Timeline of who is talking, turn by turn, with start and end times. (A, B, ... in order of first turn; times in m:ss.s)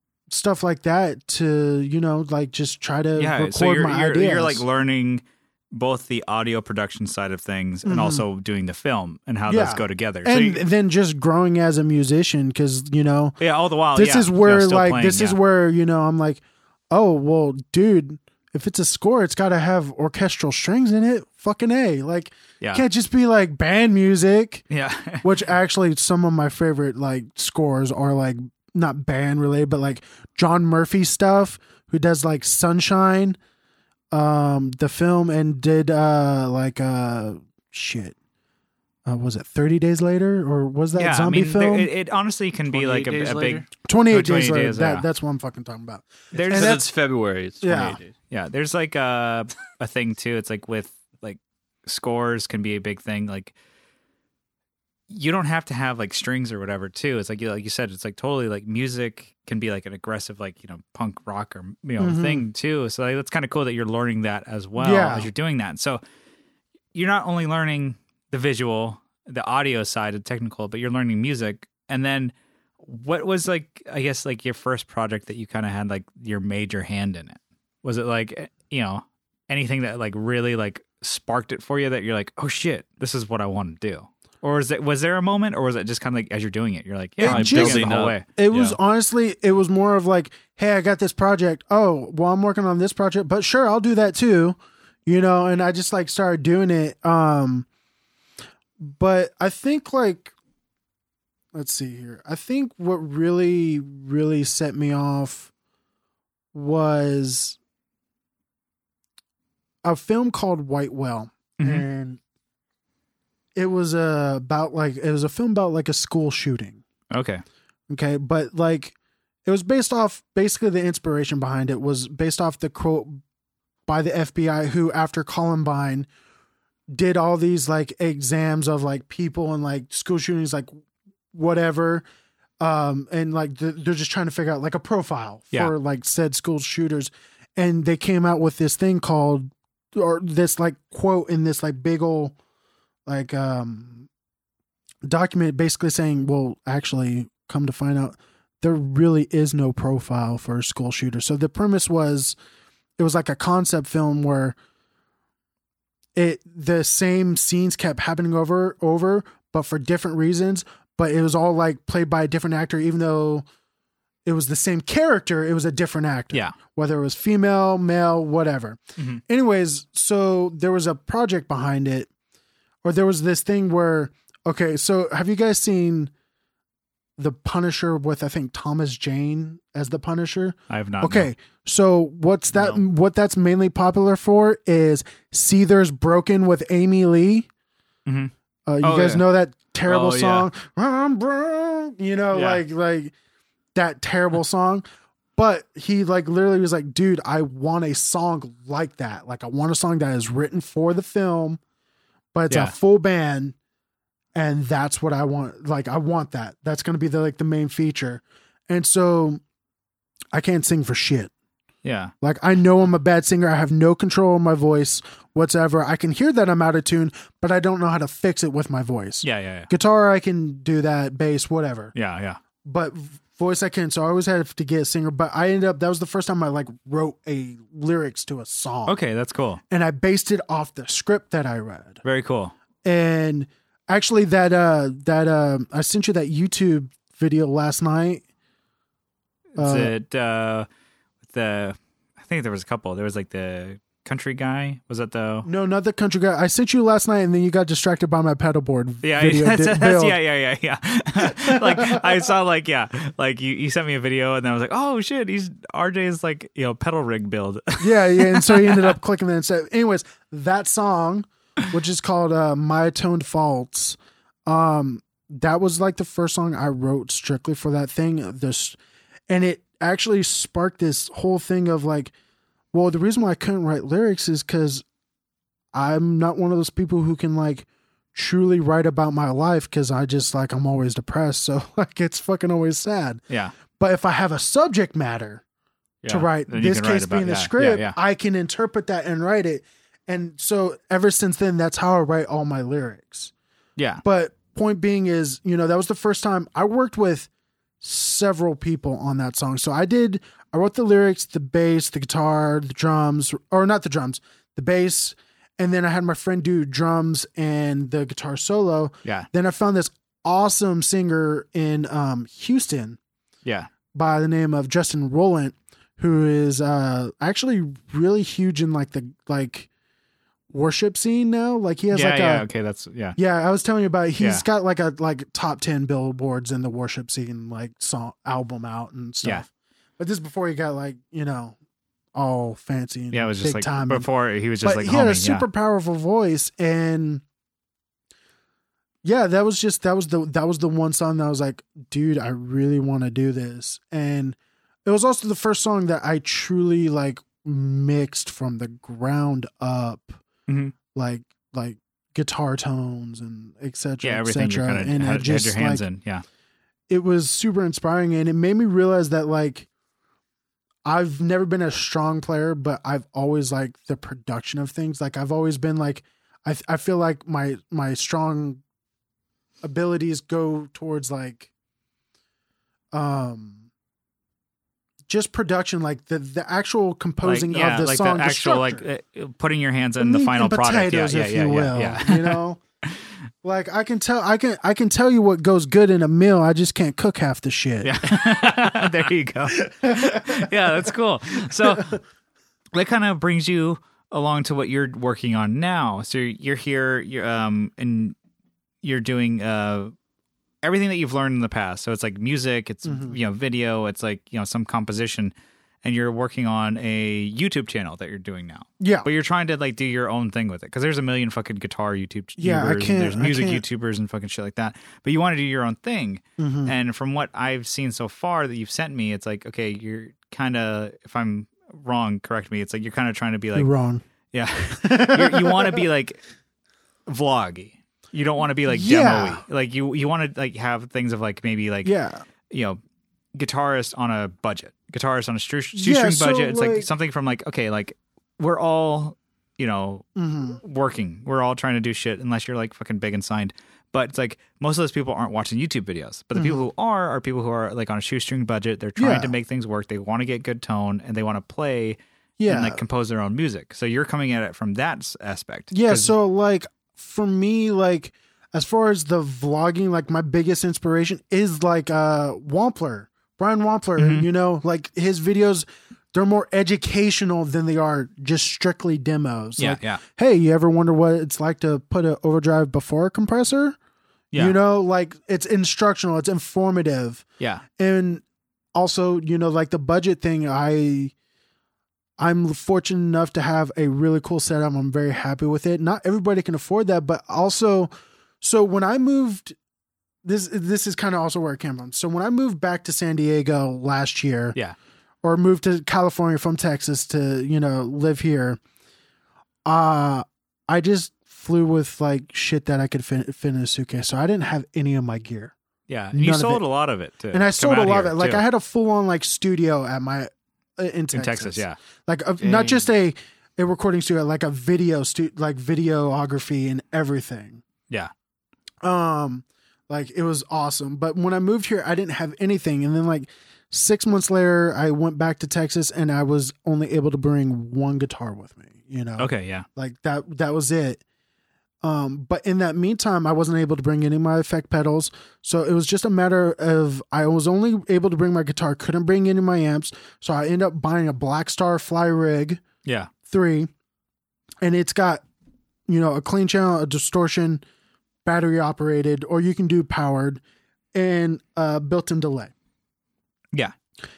0:00.3-0:04.6 A
0:03.2-0:10.6 B
0:07.8-0:08.2 A
0:09.5-0:13.4 A
0:13.4-0:15.4 B
0:13.9-0:24.6 A
0:24.7-0:25.3 B
0:25.2-0:33.4 A
0:34.1-0:38.2 A
0:39.1-0:41.9 A
0:40.9-0:45.0 B
0:42.7-0:43.7 C
0:43.8-0:46.9 A
0:46.3-0:46.8 B
0:46.4-0:48.1 C
0:47.6-0:48.0 A
0:48.3-0:53.5 B
0:55.1-1:06.0 B
1:02.0-1:02.5 A
1:04.8-1:05.3 A
1:06.9-1:28.3 B
1:27.2-1:37.6 A
1:27.2-1:28.7 C
1:38.8-1:40.3 A
1:41.5-1:45.5 A
1:46.5-1:47.6 A
1:49.8-1:52.2 A
1:51.6-1:51.8 B
1:53.5-1:56.8 A
1:57.1-1:57.4 B
1:57.9-1:58.9 A
1:59.4-2:03.2 A
2:03.9-2:06.1 A
2:06.9-2:10.7 A
2:11.3-2:12.1 A
2:12.6-2:22.4 A
2:23.1-2:24.1 A
2:25.0-2:32.4 A
2:33.0-2:34.6 A
2:36.1-2:43.4 A
2:44.2-2:52.1 A
2:52.8-2:56.1 A
2:57.2-3:07.5 A
3:00.7-3:01.3 B
3:08.1-3:09.2 B
3:08.7-3:13.1 A
3:09.8-3:10.5 C
3:12.3-3:12.6 C
3:13.8-3:14.8 A
3:15.4-3:21.6 A
3:22.3-3:23.6 A
3:22.5-3:22.8 B
3:24.4-3:29.4 A
3:30.3-3:31.3 A
3:31.8-3:32.1 B
3:32.2-3:41.9 A
3:39.2-3:39.7 B
3:41.9-3:42.4 B
3:42.6-3:49.0 A
3:48.9-3:49.6 B
3:49.7-3:52.0 A
3:52.0-3:52.5 B
3:52.8-3:58.2 A
3:59.6-4:00.7 B
3:59.6-3:59.9 A
4:01.3-4:05.5 B
4:05.4-4:10.2 A
4:09.0-4:19.0 B
4:11.2-4:12.3 A
4:17.8-4:28.8 A
4:29.3-4:32.1 A
4:32.7-4:34.8 A
4:35.7-4:43.2 A
4:43.3-4:43.5 B
4:43.7-4:45.4 A
4:46.1-4:48.0 B
4:46.1-4:53.3 A
4:53.8-4:54.0 B
4:54.0-4:57.3 A
4:57.8-5:13.0 A
5:13.4-5:13.7 B
5:13.9-5:19.7 A
5:20.5-5:22.5 A
5:21.9-5:23.2 B
5:23.2-5:29.5 A
5:24.2-5:24.4 B
5:30.0-5:31.6 A
5:32.1-5:34.1 A
5:33.1-5:35.5 B
5:34.6-5:37.2 A
5:39.0-5:50.2 A
5:50.5-5:50.7 B
5:50.9-5:55.8 A
5:54.0-5:56.2 B
5:56.9-5:59.7 A
6:00.8-6:08.6 A
6:09.6-6:11.5 A
6:12.9-6:13.7 A
6:15.1-6:18.8 A
6:17.2-6:22.4 B
6:20.0-6:22.6 A
6:23.4-6:28.4 A
6:27.8-6:32.0 B
6:29.6-6:30.9 A
6:31.5-6:32.0 A
6:32.7-6:38.2 B
6:38.8-6:39.9 B
6:40.6-7:03.7 B
6:42.8-6:43.2 A
6:48.8-6:49.1 A
6:52.4-6:53.6 A
6:56.4-6:56.7 A
7:03.5-7:04.0 A
7:04.3-7:06.2 B
7:04.8-7:05.8 A
7:07.1-7:11.9 B
7:08.7-7:09.4 A
7:11.8-7:12.2 A
7:12.5-7:12.8 B
7:13.4-7:36.1 B
7:15.7-7:16.9 A
7:20.2-7:20.6 A
7:26.4-7:26.6 A
7:29.0-7:29.3 A
7:32.4-7:32.8 A
7:35.7-7:53.8 A
7:44.0-7:44.3 B
7:49.6-7:50.0 B
7:54.3-7:57.2 A
7:57.8-7:58.2 A
7:58.7-8:01.1 A
8:02.2-8:09.6 A
8:10.2-8:14.6 A
8:15.2-8:18.6 A
8:19.6-8:25.5 A
8:25.9-8:28.4 B
8:26.1-8:26.6 A
8:27.3-8:37.6 A
8:31.1-8:31.8 B
8:32.4-8:32.8 C
8:38.8-8:51.0 A
8:49.2-8:49.6 B
8:51.8-9:02.6 A
9:02.8-9:03.1 B
9:03.2-9:03.7 A
9:04.6-9:05.2 A
9:05.9-9:07.6 A
9:08.2-9:10.4 A
9:10.9-9:12.5 A